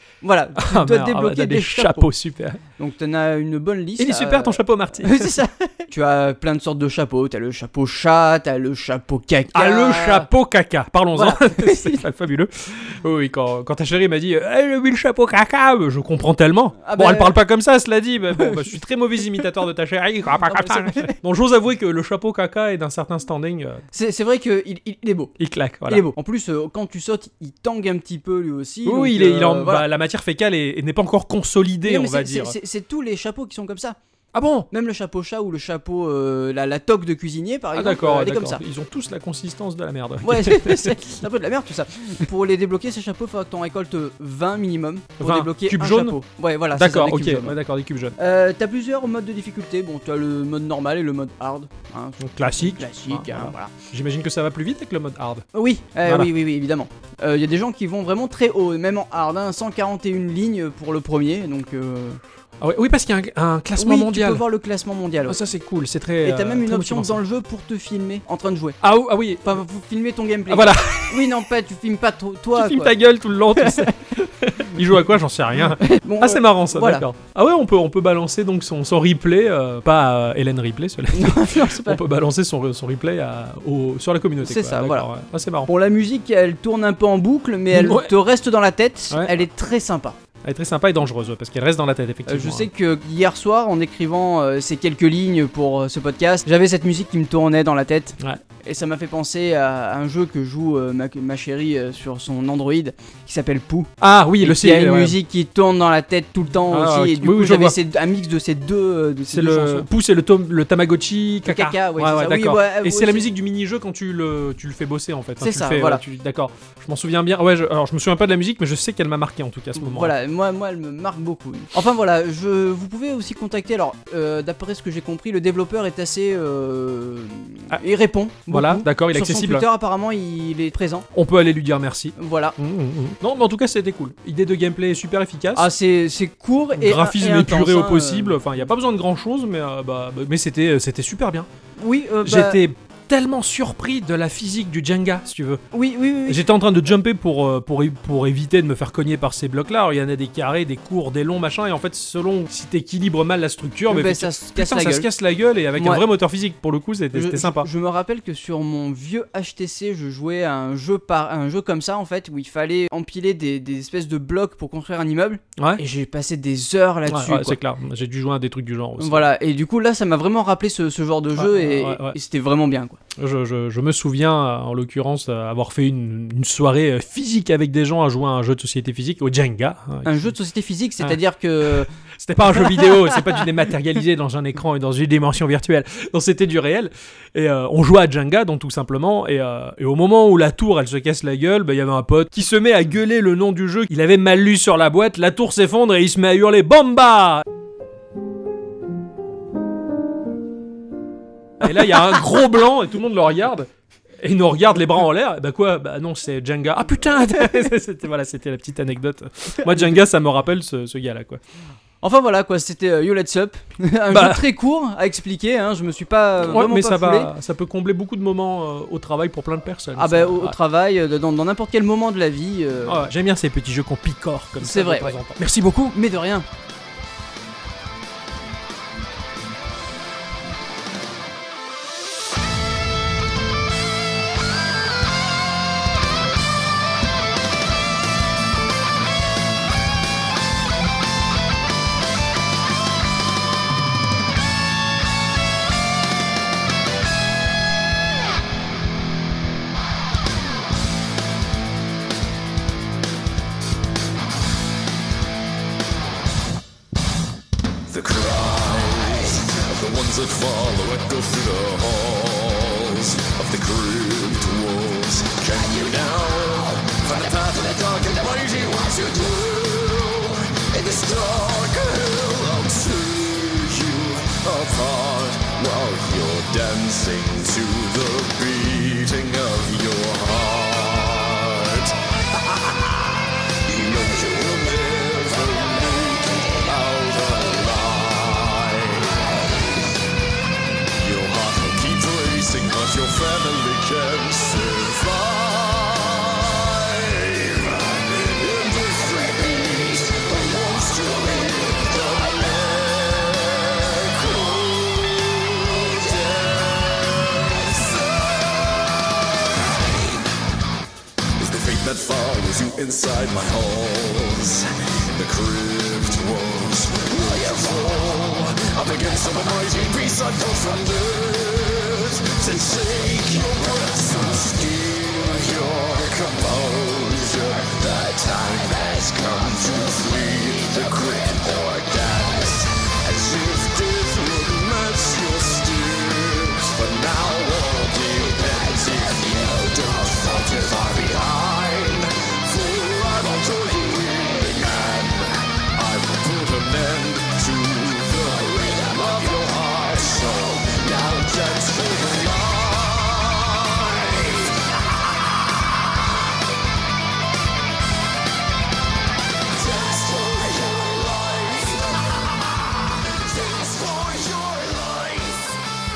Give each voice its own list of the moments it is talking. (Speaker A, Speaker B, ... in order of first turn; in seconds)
Speaker A: 0.2-2.1, 2.8-10.3, 11.1-12.0, 16.8-17.4, 18.3-18.8, 20.4-21.1, 23.9-25.3, 25.9-29.8, 31.8-34.0, 34.7-38.6, 40.2-47.5, 48.2-53.7, 55.5-62.2, 63.8-65.4, 66.2-68.8, 69.4-73.0, 73.5-73.9, 75.8-77.0, 81.1-82.0, 84.4-85.1, 85.7-90.2, 92.2-109.8, 111.4-113.3, 115.4-116.0, 119.7-131.1, 132.2-132.6, 135.5-138.6, 141.8-142.6, 145.7-146.4, 153.9-155.1, 155.8-156.0, 157.1-167.6, 169.0-173.0, 180.0-181.9, 182.5-183.4, 209.6-210.0, 212.0-217.3, 220.0-223.1, 224.6-225.2, 225.9-226.5
Speaker B: 0.6-2.6, 4.0-5.4, 9.5-23.8, 25.4-26.0, 28.8-32.5, 34.3-34.7, 37.7-41.0, 45.2-46.2, 46.7-48.2, 52.2-55.4, 56.0-56.3, 62.6-64.4, 65.3-67.2, 68.8-69.6, 70.5-71.3, 72.5-85.7, 87.7-88.1, 89.1-89.4, 90.4-92.7, 104.0-105.2, 106.7-107.8, 109.3-120.1, 128.5-129.7, 131.1-135.7, 136.8-141.5, 142.2-145.6, 146.3-157.7, 165.6-165.8, 167.1-169.3, 171.3-172.2, 173.2-180.3, 181.8-197.4, 201.6-203.7, 204.2-211.4, 214.1-214.4, 216.4-220.6, 222.8-226.0
Speaker C: 257.9-289.4, 290.9-308.9, 311.4-354.6, 359.5-365.6